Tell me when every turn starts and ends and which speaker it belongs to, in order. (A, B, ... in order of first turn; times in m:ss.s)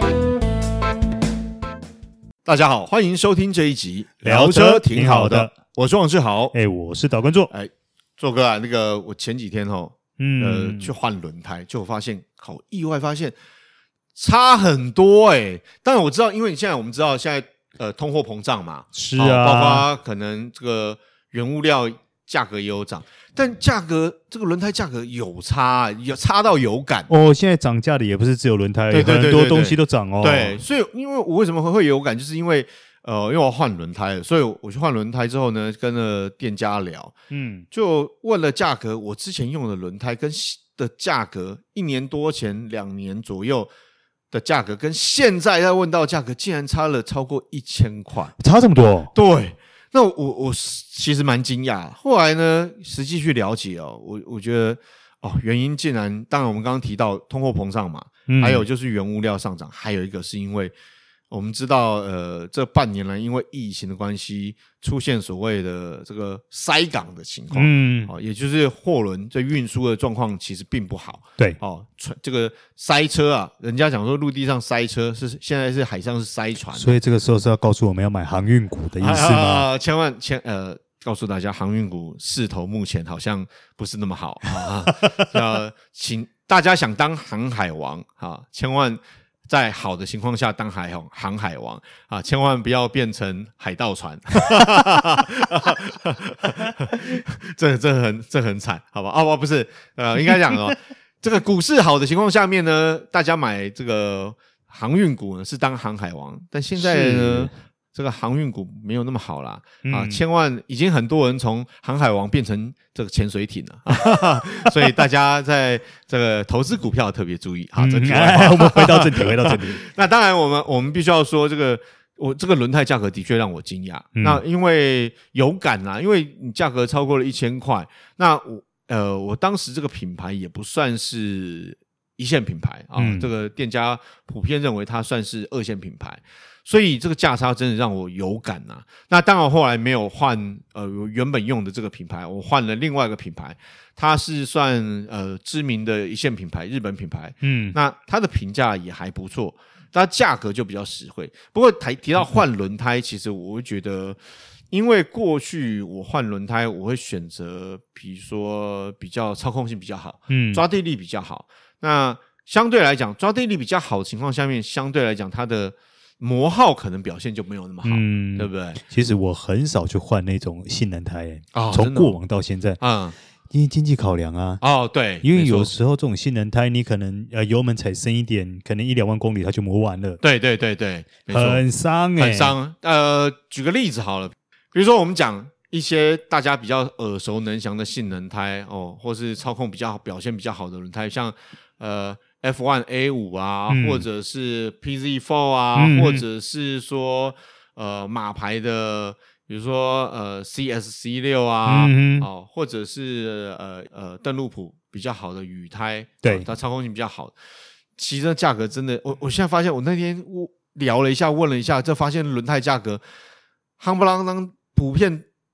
0:02.4-0:06.6 A
0:04.2-0:05.5 B
0:06.5-0:07.5 B
0:07.5-0:13.4 A
0:10.2-0:10.9 B
0:14.2-0:27.1 A
0:18.9-0:19.9 B
0:27.1-0:30.6 B
0:28.9-0:37.1 A
0:37.3-0:37.7 B
0:37.7-0:43.7 A
0:44.3-0:48.3 A
0:48.4-0:49.1 B
0:49.1-1:00.7 A
0:58.3-0:58.6 B
1:01.3-1:17.0 A
1:07.5-1:08.1 B
1:16.7-1:19.7 B
1:19.0-2:34.2 A
1:24.9-1:25.3 B
1:46.8-1:47.5 B
1:49.8-1:50.2 B
1:57.8-1:59.9 B
2:04.2-2:04.4 B
2:13.0-2:13.3 B
2:27.4-2:27.8 B
2:34.7-2:48.8 A
2:40.3-2:40.6 B
2:47.8-2:52.8 B
2:51.5-2:52.2 A
2:52.8-2:53.2 A
2:53.5-2:54.6 B
2:54.6-2:55.7 A
2:55.2-3:00.2 B
3:00.2-3:01.6 A
3:01.3-3:02.6 B
3:02.2-3:27.4 A
3:13.7-3:14.0 B
3:15.8-3:16.2 B
3:21.7-3:22.3 B
3:26.2-3:26.5 B
3:28.0-3:33.0 A
3:33.8-3:35.2 A